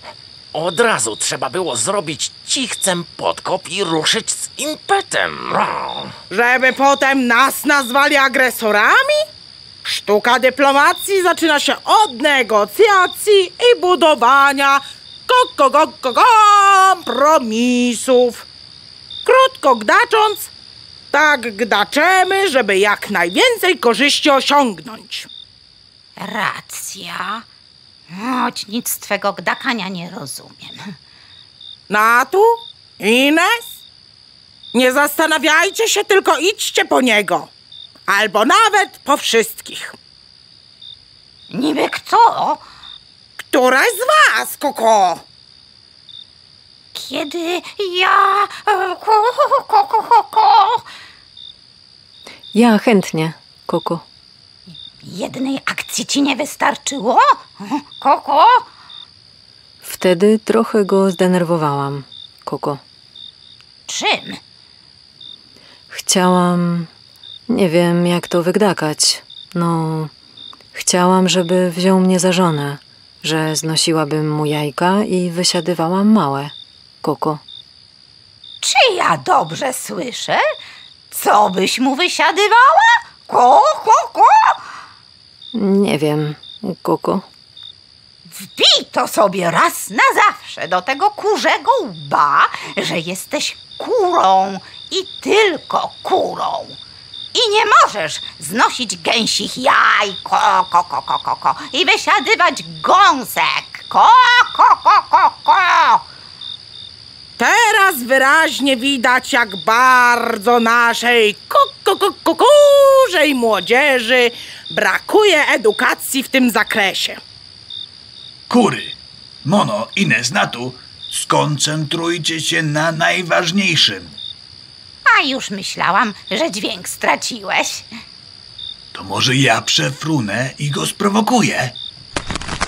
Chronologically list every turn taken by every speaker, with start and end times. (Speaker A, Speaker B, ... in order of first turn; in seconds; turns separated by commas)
Speaker A: 0.5-6.1, Speaker B: 6.3-9.2, Speaker B: 9.8-18.5, Speaker B: 19.2-20.5, Speaker B: 21.1-25.3, Speaker C: 26.2-27.4, Speaker C: 28.1-30.9, Speaker B: 31.9-33.8, Speaker B: 34.7-37.5, Speaker B: 38.1-40.0, Speaker C: 41.5-42.6, Speaker B: 43.4-45.2, Speaker C: 46.9-50.9, Speaker D: 52.5-54.0, Speaker C: 55.0-58.6, Speaker D: 59.8-62.8, Speaker C: 63.9-64.4, Speaker D: 65.9-66.9, Speaker D: 67.5-70.1, Speaker D: 70.7-77.4, Speaker C: 78.6-80.4, Speaker C: 81.1-84.6, Speaker D: 85.5-87.3, Speaker C: 88.3-96.8, Speaker C: 97.3-106.0, Speaker B: 107.4-117.2, Speaker E: 118.5-124.2, Speaker C: 125.1-127.9, Speaker E: 128.9-131.8